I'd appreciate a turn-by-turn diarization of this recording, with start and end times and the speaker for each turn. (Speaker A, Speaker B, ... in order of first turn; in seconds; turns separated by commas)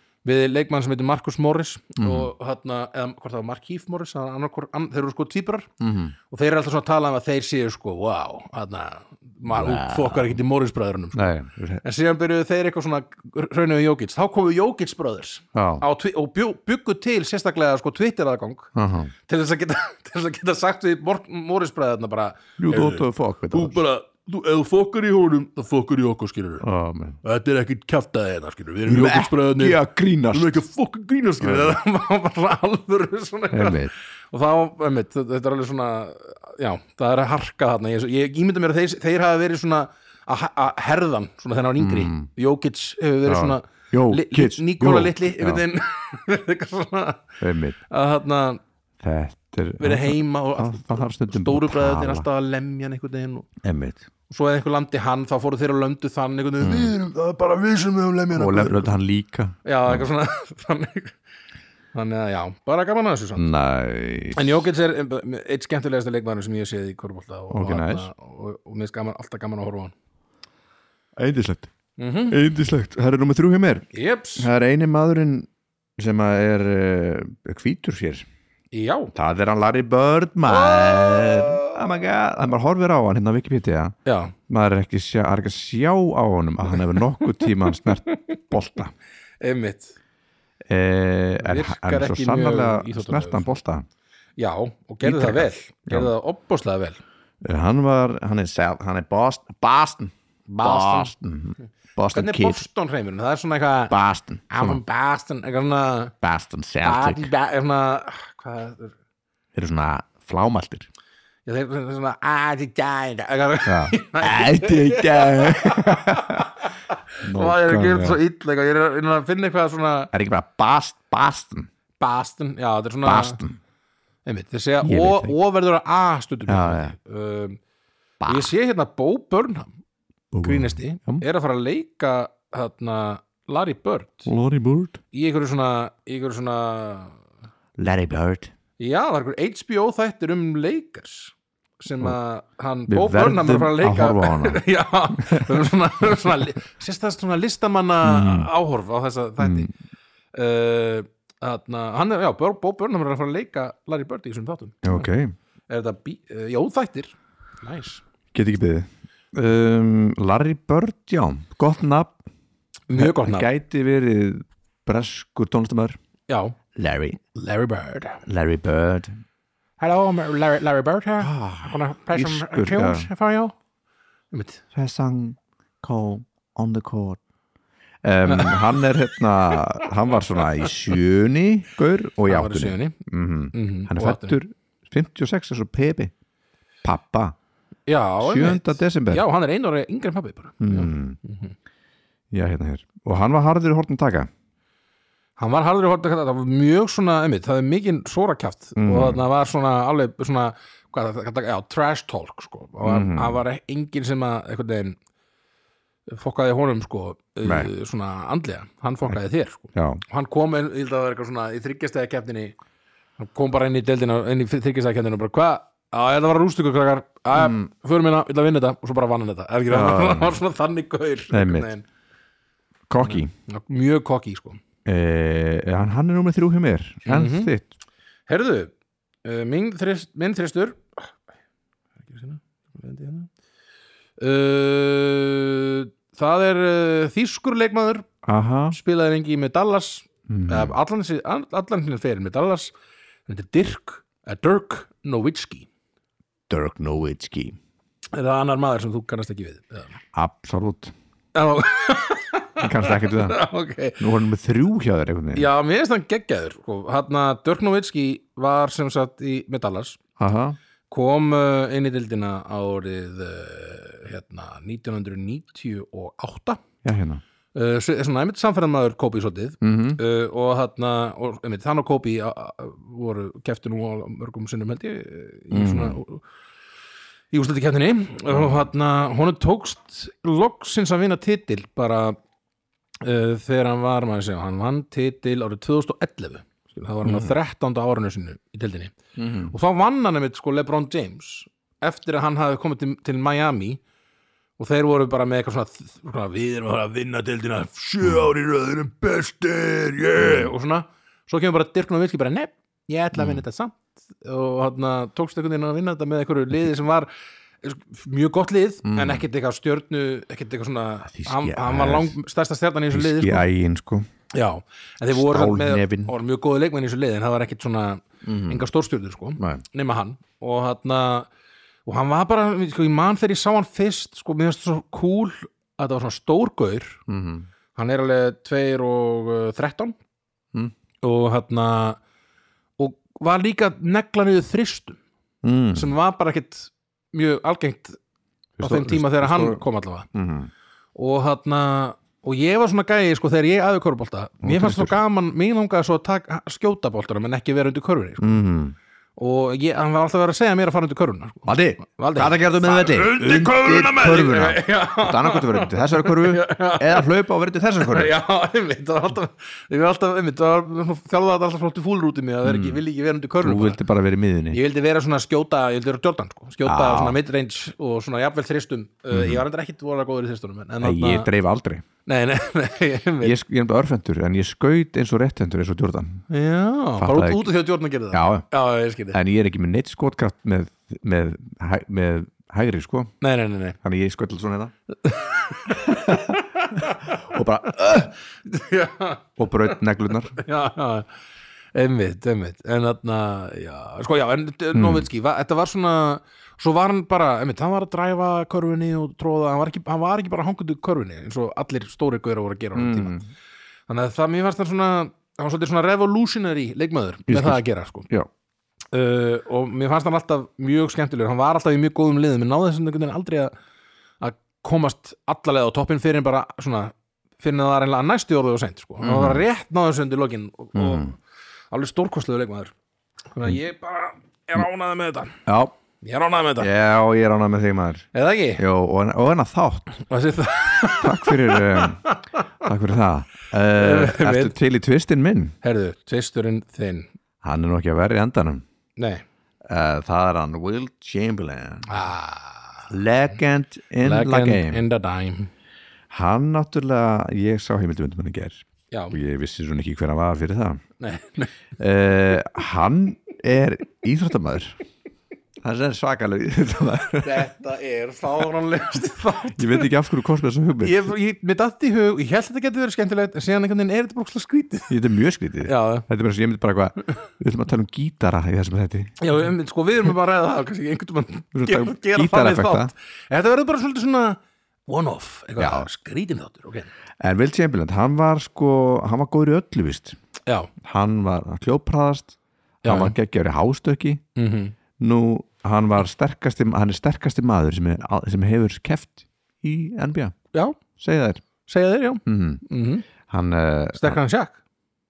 Speaker A: 0.2-5.7, Speaker B: 2.0-2.3, Speaker B: 5.8-6.2, Speaker A: 6.3-18.7, Speaker B: 9.5-10.4, Speaker B: 11.2-11.8, Speaker B: 15.5-15.8, Speaker B: 18.7-19.1, Speaker A: 19.3-26.7, Speaker B: 22.6-23.8, Speaker B: 26.6-27.2, Speaker A: 27.2-47.4, Speaker B: 28.9-30.6, Speaker B: 31.4-31.8, Speaker B: 33.5-33.9, Speaker B: 41.8-42.3, Speaker B: 43.3-45.6, Speaker B: 47.4-47.8, Speaker A: 47.9-48.6, Speaker B: 49.0-52.3, Speaker A: 49.8-53.5, Speaker B: 53.6-54.1, Speaker A: 54.3-58.9, Speaker B: 56.6-56.9, Speaker B: 58.3-60.1, Speaker A: 59.6-61.2, Speaker A: 61.9-63.5, Speaker B: 63.4-64.6, Speaker A: 64.3-69.9, Speaker B: 67.5-68.1, Speaker B: 71.2-71.7, Speaker A: 72.0-72.4, Speaker B: 72.3-78.3, Speaker A: 73.9-74.5, Speaker A: 78.7-79.1, Speaker B: 79.1-84.0, Speaker A: 80.5-81.8, Speaker A: 84.1-84.3, Speaker B: 84.5-88.9, Speaker A: 87.4-88.3, Speaker A: 89.4-90.0, Speaker B: 90.7-93.8, Speaker A: 91.4-93.5, Speaker A: 94.4-97.0, Speaker B: 95.0-96.1, Speaker B: 97.4-102.6, Speaker A: 100.5-101.1, Speaker A: 102.1-104.0, Speaker B: 103.9-104.8, Speaker A: 104.5-106.1, Speaker B: 106.2-107.3, Speaker A: 106.8-109.0, Speaker B: 109.5-110.9, Speaker A: 111.5-120.1, Speaker B: 113.7-116.5, Speaker B: 117.2-118.2, Speaker B: 120.1-121.7, Speaker A: 122.0-123.4, Speaker B: 123.0-123.6, Speaker A: 124.2-127.6, Speaker B: 124.8-125.3, Speaker B: 126.5-126.9, Speaker B: 128.2-128.5, Speaker A: 128.3-129.7, Speaker B: 130.3-131.2, Speaker A: 130.4-134.3, Speaker B: 134.3-135.0, Speaker A: 135.1-137.1, Speaker B: 137.8-138.5, Speaker A: 138.8-149.7, Speaker B: 142.9-144.6, Speaker B: 145.2-145.6, Speaker B: 148.0-148.5, Speaker B: 149.4-149.7, Speaker A: 150.3-155.1, Speaker B: 154.8-155.3, Speaker A: 155.7-158.0, Speaker B: 158.3-162.2, Speaker A: 162.9-163.5, Speaker B: 162.9-166.0, Speaker A: 166.3-166.6, Speaker B: 166.7-167.2, Speaker A: 167.3-168.2, Speaker B: 168.3-169.2, Speaker A: 169.8-173.5, Speaker B: 171.2-173.1, Speaker A: 174.3-174.6, Speaker B: 174.7-177.2, Speaker B: 178.0-186.1, Speaker A: 178.3-178.9, Speaker A: 182.3-183.0, Speaker A: 183.5-184.4, Speaker B: 186.8-187.4, Speaker A: 187.9-191.5, Speaker B: 188.2-189.2, Speaker B: 190.6-191.2, Speaker B: 192.3-194.3, Speaker A: 195.4-205.0, Speaker B: 198.8-199.2, Speaker B: 202.8-203.4, Speaker A: 206.1-212.6, Speaker B: 207.4-207.7, Speaker B: 209.7-210.0, Speaker A: 213.2-221.8, Speaker B: 217.3-217.7, Speaker B: 219.7-220.4, Speaker B: 221.3-221.7, Speaker B: 222.9-223.3, Speaker A: 223.0-224.6, Speaker B: 224.8-227.7, Speaker A: 227.1-227.5, Speaker A: 228.3-228.7, Speaker A: 229.2-231.1, Speaker A: 232.1-233.3, Speaker A: 234.2-238.1, Speaker B: 238.2-238.8, Speaker A: 238.7-242.7, Speaker B: 240.3-240.7, Speaker A: 243.3-245.7, Speaker B: 246.5-247.6, Speaker A: 248.1-250.0, Speaker B: 250.1-250.9, Speaker A: 251.3-254.0, Speaker B: 252.6-253.4, Speaker B: 254.0-255.5, Speaker A: 255.3-260.0, Speaker B: 260.2-260.6, Speaker A: 260.9-266.6, Speaker B: 266.8-267.2, Speaker A: 267.5-276.2, Speaker B: 269.6-270.0, Speaker B: 275.5-276.0, Speaker A: 277.3-282.2, Speaker B: 278.3-278.6, Speaker A: 283.0-293.8, Speaker B: 287.1-287.4, Speaker B: 289.2-289.5, Speaker A: 294.6-307.1, Speaker B: 300.2-300.5, Speaker B: 303.1-303.4, Speaker A: 307.6-313.4, Speaker B: 308.8-309.2, Speaker B: 311.1-312.2, Speaker B: 312.9-314.1, Speaker A: 314.3-321.3, Speaker B: 315.1-316.1, Speaker B: 318.2-318.6, Speaker A: 321.9-327.0, Speaker B: 327.1-327.5, Speaker A: 327.7-330.0, Speaker A: 331.0-332.0, Speaker A: 332.8-335.0, Speaker B: 335.4-335.9, Speaker A: 335.7-338.0, Speaker B: 338.6-339.6, Speaker A: 338.6-340.1, Speaker B: 340.1-340.5, Speaker A: 340.9-348.4, Speaker B: 344.4-344.9, Speaker B: 348.2-348.7, Speaker A: 349.2-357.1, Speaker B: 351.5-358.1, Speaker A: 357.8-363.8, Speaker B: 362.4-362.8, Speaker B: 363.4-364.6, Speaker A: 364.5-371.3, Speaker B: 366.6-367.2, Speaker B: 369.1-369.4, Speaker B: 370.8-371.8, Speaker A: 372.1-373.4, Speaker B: 373.2-376.2, Speaker A: 376.3-379.2, Speaker B: 377.0-377.5, Speaker B: 378.1-378.4, Speaker B: 379.1-383.1, Speaker A: 383.2-383.8, Speaker B: 383.8-384.7, Speaker A: 385.0-387.2, Speaker B: 385.7-388.1, Speaker A: 387.7-389.8, Speaker B: 389.4-390.4, Speaker A: 390.3-391.1, Speaker A: 391.7-403.2, Speaker B: 394.7-395.1, Speaker B: 402.7-403.2, Speaker A: 403.9-408.1, Speaker B: 407.3-408.3, Speaker A: 408.9-413.5, Speaker A: 414.2-421.2, Speaker B: 419.0-419.4, Speaker B: 420.7-421.1, Speaker A: 421.7-422.7, Speaker A: 423.3-425.4, Speaker B: 425.4-425.7, Speaker A: 426.0-426.7, Speaker B: 426.6-428.1, Speaker A: 428.1-428.6, Speaker B: 428.6-429.9, Speaker A: 430.0-432.4, Speaker B: 431.0-432.0, Speaker B: 432.6-435.6, Speaker A: 433.7-434.6, Speaker A: 435.6-437.1, Speaker B: 437.4-438.6, Speaker A: 439.0-439.2, Speaker B: 439.7-442.0, Speaker A: 441.9-442.9, Speaker B: 442.9-444.8, Speaker A: 444.0-445.5, Speaker B: 446.1-450.8, Speaker A: 448.9-449.2, Speaker A: 451.0-451.5, Speaker B: 451.8-454.8, Speaker B: 455.6-457.5, Speaker A: 457.2-459.9, Speaker B: 459.6-461.1, Speaker A: 460.8-464.9, Speaker B: 464.9-469.2, Speaker A: 465.6-466.1, Speaker A: 469.2-476.9, Speaker B: 471.5-472.9, Speaker B: 475.6-475.9, Speaker B: 477.2-480.2, Speaker B: 480.8-484.2, Speaker A: 482.9-483.1, Speaker A: 484.4-484.7, Speaker B: 485.0-490.4, Speaker A: 490.5-490.8, Speaker B: 491.0-491.4, Speaker A: 491.7-493.1, Speaker B: 492.3-492.6, Speaker B: 493.3-494.2, Speaker A: 494.0-494.6